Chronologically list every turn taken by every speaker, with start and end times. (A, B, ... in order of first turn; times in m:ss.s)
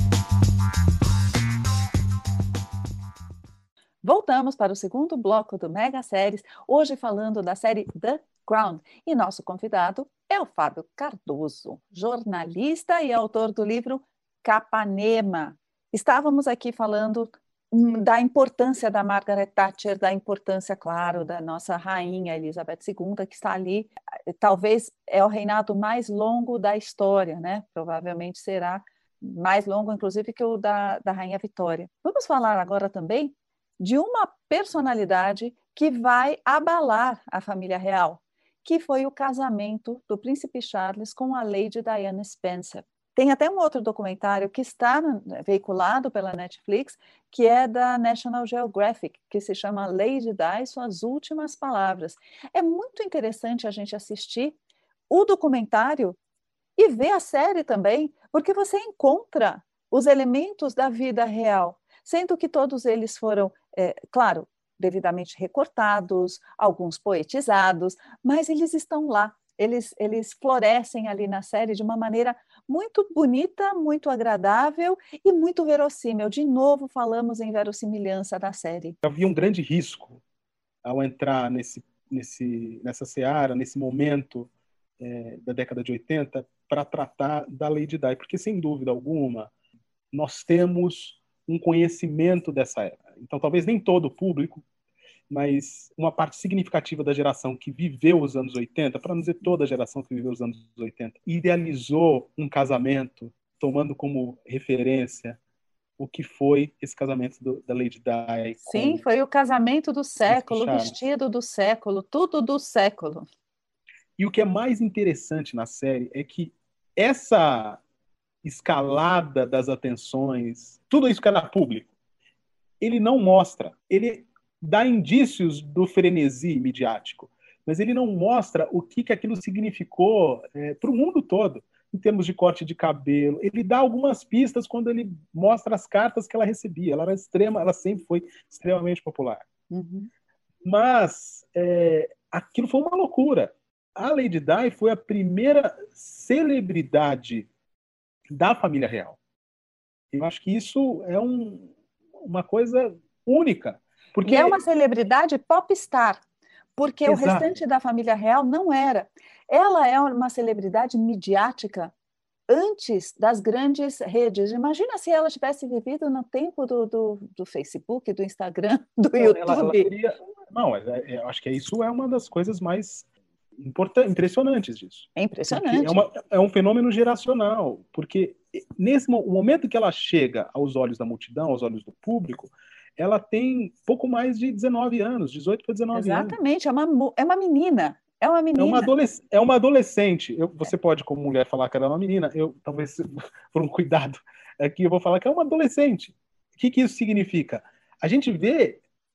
0:04.0-0:54.6 A
0:55.1-0:56.2 A
0:56.8-1:19.0 A
1:19.0-1:20.2 B
1:20.8-1:29.5 B
1:30.1-1:34.6 B
1:35.3-1:45.4 B
1:46.0-1:49.0 B
1:48.7-1:53.3 A
1:50.3-1:51.0 B
1:54.2-1:57.8 B
1:58.4-2:01.9 B
2:02.8-2:19.5 B
2:19.7-2:20.1 A
2:20.6-2:27.5 B
2:28.3-2:29.2 B
2:30.1-2:31.7 B
2:32.2-2:34.6 B
2:34.2-2:36.2 A
2:36.8-2:41.9 A
2:37.1-2:37.6 B
2:42.5-2:49.9 A
2:49.2-2:53.1 B
2:53.6-3:06.4 B
2:55.2-2:56.0 A
3:05.9-3:08.9 A
3:08.6-3:18.8 B